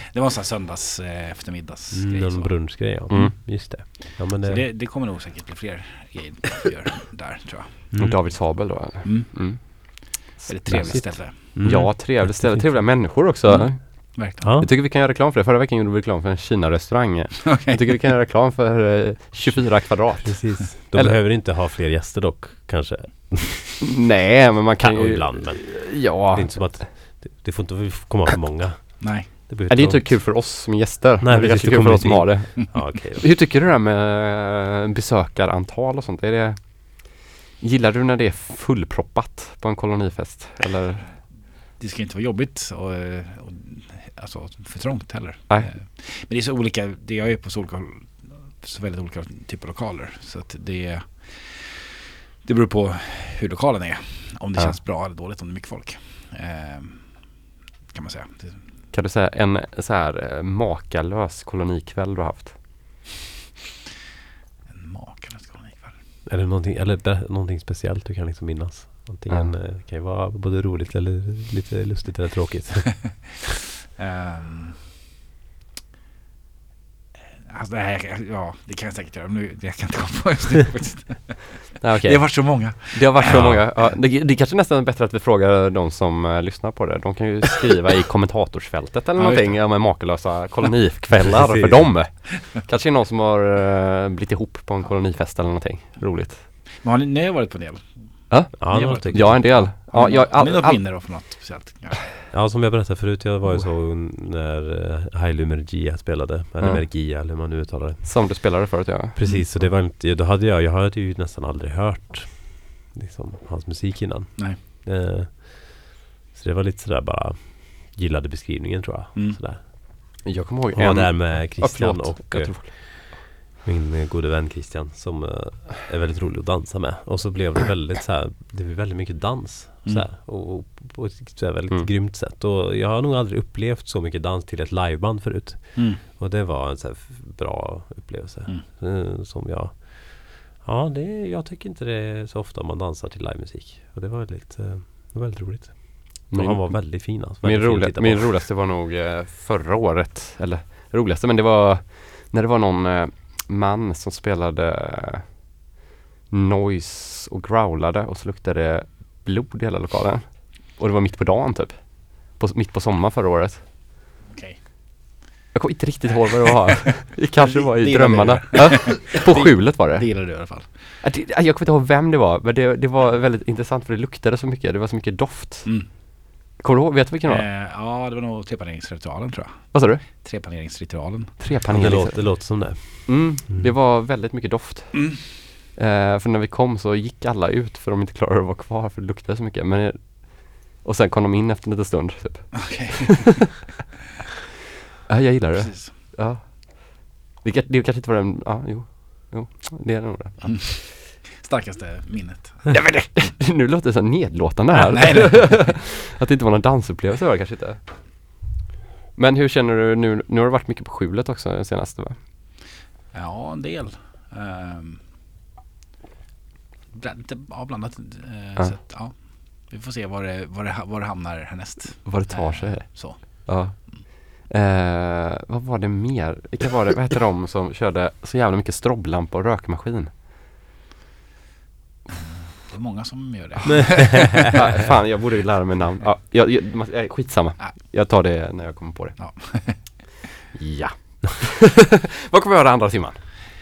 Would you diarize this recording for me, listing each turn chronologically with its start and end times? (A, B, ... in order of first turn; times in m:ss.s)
0:00.1-0:03.3 A
0:01.9-0:04.7 B
0:03.1-0:03.8 C
0:04.3-0:08.5 A
0:08.0-0:21.2 C
0:09.0-0:11.6 A
0:10.7-0:13.1 B
0:13.5-0:14.6 A
0:14.4-0:14.7 B
0:17.4-0:17.9 A
0:20.2-0:23.9 B
0:23.8-0:26.8 C
0:24.8-0:30.6 B
0:29.0-0:29.3 A
0:29.7-0:41.1 C
0:31.2-0:33.3 B
0:41.8-0:51.9 A
0:52.4-0:58.8 A
0:58.9-1:02.6 C
1:04.7-1:06.0 A
1:06.3-1:13.4 B
1:09.3-1:09.6 C
1:14.0-1:14.9 A
1:17.3-1:23.9 A
1:21.8-1:36.5 C
1:29.2-1:30.1 A
1:31.2-1:32.2 B
1:36.7-1:42.1 A
1:38.3-1:41.2 C
1:38.6-1:39.7 B
1:42.3-1:48.4 B
1:46.6-1:47.4 C
1:48.0-1:49.2 C
1:49.1-1:59.6 B
1:49.2-1:49.6 A
1:59.2-1:59.4 A
2:00.2-2:03.1 C
2:00.7-2:28.4 B
2:15.8-2:16.0 A
2:26.3-2:35.6 C
2:36.3-2:43.6 C
2:44.3-2:44.6 A
2:45.5-2:57.5 C
2:46.1-2:50.8 A
2:55.6-2:55.9 A
2:57.3-3:01.4 A
2:59.7-3:00.0 C
3:01.4-3:13.2 C
3:01.6-3:03.7 B
3:04.9-3:05.2 A
3:12.6-3:13.5 A
3:15.1-3:20.7 C
3:15.5-3:16.0 A
3:20.4-3:23.4 A
3:22.7-3:28.4 C
3:24.7-3:25.8 A
3:29.2-3:32.2 C
3:33.1-3:35.1 A
3:36.9-3:44.0 A
3:42.0-3:50.1 C
3:52.1-3:54.9 A
3:53.8-3:54.4 B
3:54.5-3:59.8 C
3:59.2-4:00.1 A
4:00.6-4:03.2 C